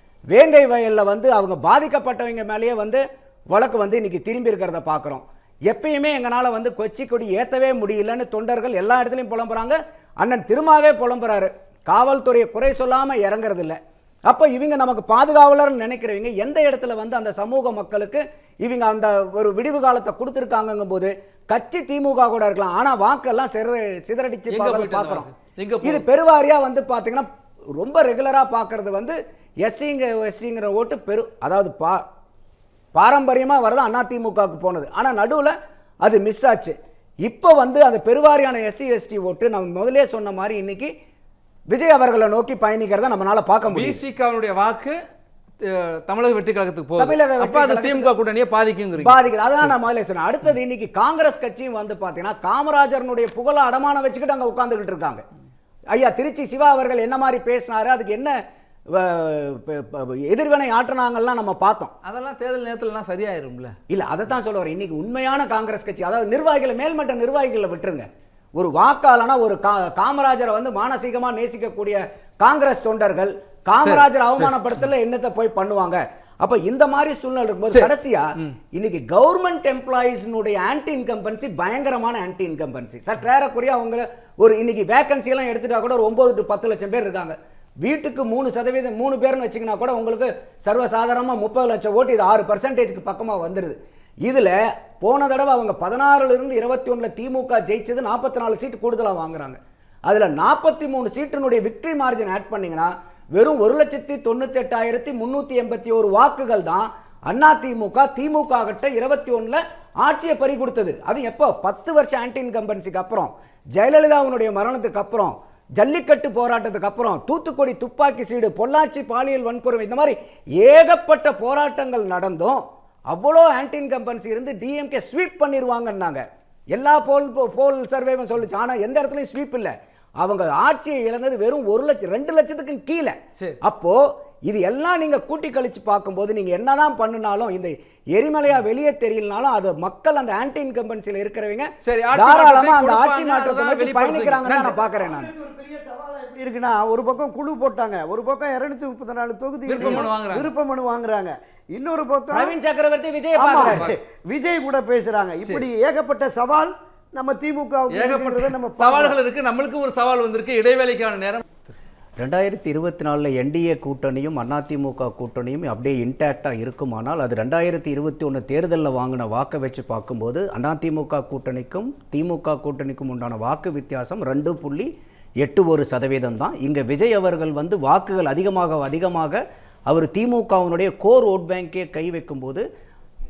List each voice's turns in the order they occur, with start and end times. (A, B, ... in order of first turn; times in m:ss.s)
0:00.3-0:25.3 A
0:24.5-0:26.0 B
0:25.8-0:32.0 A
0:32.9-0:40.9 A
0:41.7-0:44.0 A
0:43.7-0:45.0 B
0:45.6-0:49.2 B
0:47.0-0:48.1 A
0:49.0-0:55.2 A
0:55.9-0:58.3 A
0:58.9-1:01.9 A
1:02.0-1:03.7 B
1:03.9-2:25.3 A
1:13.8-1:14.6 B
2:21.8-2:24.8 B
2:24.9-2:32.5 C
2:29.6-2:30.5 B
2:32.3-2:33.9 A
2:33.3-2:39.2 C
2:33.6-2:33.9 B
2:37.9-2:41.6 B
2:42.2-2:54.9 A
2:55.4-3:02.6 A